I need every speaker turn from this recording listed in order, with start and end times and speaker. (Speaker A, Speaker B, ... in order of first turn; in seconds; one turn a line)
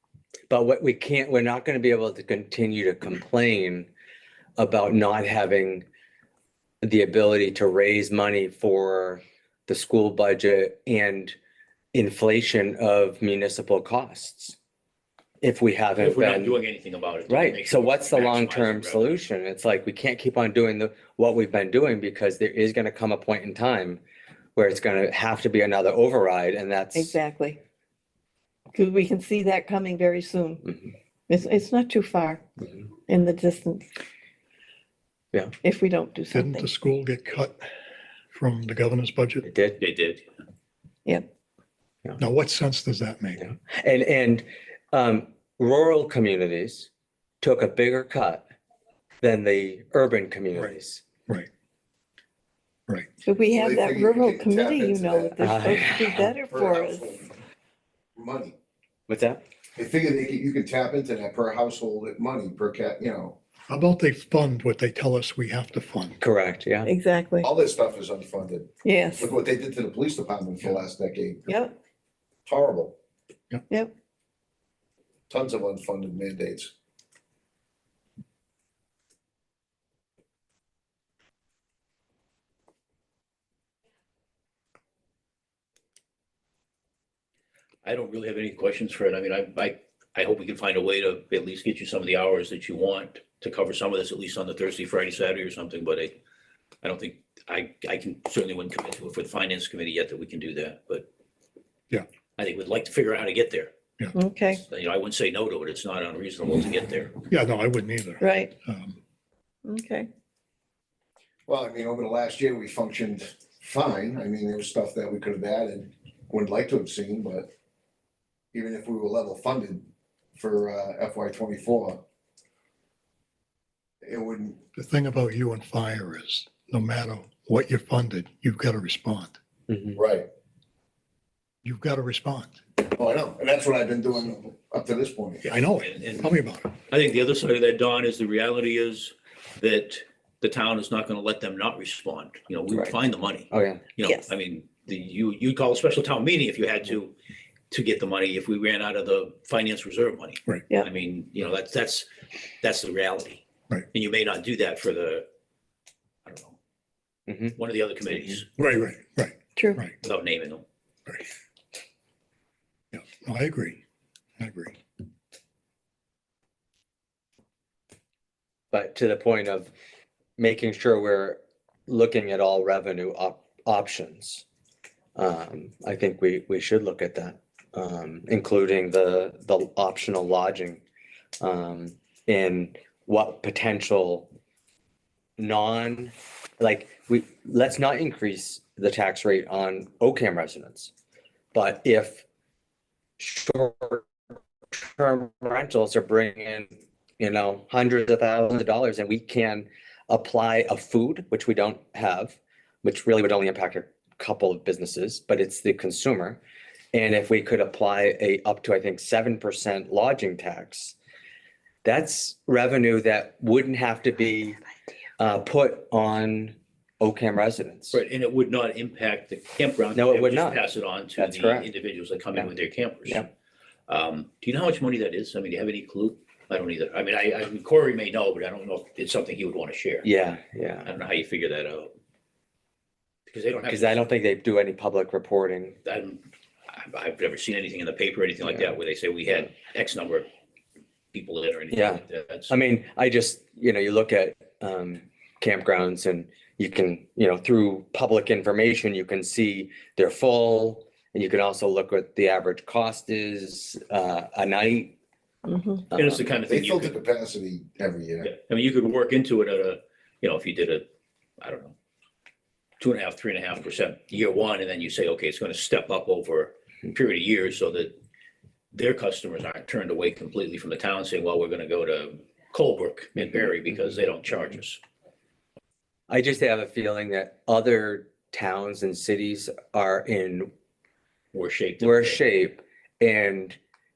Speaker A: 0.5-3.9
Speaker A: 4.6-5.8
Speaker A: 6.8-11.3
Speaker A: 11.9-14.6
Speaker A: 15.4-16.6
Speaker B: 16.0-19.1
Speaker A: 17.3-24.0
Speaker A: 24.6-27.2
Speaker C: 26.9-27.6
Speaker C: 28.7-30.8
Speaker C: 31.3-33.9
Speaker C: 35.6-36.7
Speaker D: 36.3-37.6
Speaker D: 38.3-39.5
Speaker A: 39.4-39.8
Speaker B: 39.8-40.2
Speaker D: 42.2-43.4
Speaker A: 43.4-46.9
Speaker A: 47.4-48.5
Speaker A: 49.2-51.0
Speaker C: 53.2-57.1
Speaker E: 53.5-55.5
Speaker A: 55.4-56.3
Speaker E: 56.5-57.3
Speaker E: 58.1-58.5
Speaker A: 59.1-59.4
Speaker E: 59.8-63.4
Speaker D: 63.7-66.2
Speaker A: 66.2-66.9
Speaker C: 66.8-67.5
Speaker E: 67.4-71.5
Speaker C: 68.8-69.3
Speaker C: 71.5-71.7
Speaker E: 72.5-73.0
Speaker E: 75.3-76.7
Speaker B: 87.8-96.1
Speaker B: 96.8-101.0
Speaker B: 102.4-103.7
Speaker C: 104.1-104.6
Speaker B: 104.5-107.2
Speaker D: 107.3-109.0
Speaker C: 108.2-108.5
Speaker C: 109.6-110.1
Speaker E: 111.5-117.5
Speaker E: 118.5-122.0
Speaker E: 124.0-124.6
Speaker D: 124.7-129.4
Speaker A: 129.7-130.0
Speaker E: 129.9-130.3
Speaker D: 131.6-132.6
Speaker E: 132.8-135.5
Speaker D: 135.4-136.7
Speaker B: 135.8-136.3
Speaker B: 136.9-147.1
Speaker A: 143.5-143.8
Speaker B: 147.7-152.1
Speaker B: 152.6-155.2
Speaker B: 156.2-156.6
Speaker A: 157.3-157.6
Speaker B: 157.6-158.5
Speaker D: 158.6-159.9
Speaker C: 159.6-159.8
Speaker B: 160.0-160.6
Speaker D: 162.9-163.8
Speaker D: 164.4-164.8
Speaker A: 168.7-169.7
Speaker A: 170.4-174.4
Speaker A: 175.2-180.8
Speaker A: 181.4-184.3
Speaker A: 185.4-190.9
Speaker A: 191.5-192.2
Speaker A: 193.2-194.1
Speaker A: 194.7-196.7
Speaker A: 197.2-206.4
Speaker A: 206.9-210.9
Speaker A: 211.8-214.6
Speaker A: 215.2-218.0
Speaker B: 217.9-223.3
Speaker A: 219.9-221.7
Speaker B: 223.9-230.1
Speaker A: 230.0-230.9
Speaker B: 230.8-231.9
Speaker B: 233.3-234.0
Speaker A: 233.7-235.8
Speaker B: 235.8-240.3
Speaker B: 241.1-242.5
Speaker A: 241.7-254.9
Speaker C: 255.4-255.8
Speaker A: 255.9-256.2
Speaker B: 255.9-257.0
Speaker E: 256.5-258.3
Speaker B: 258.2-260.8
Speaker B: 261.4-261.7
Speaker B: 262.8-267.9
Speaker B: 268.7-274.8
Speaker A: 276.1-280.5
Speaker B: 281.3-282.2
Speaker A: 281.8-283.6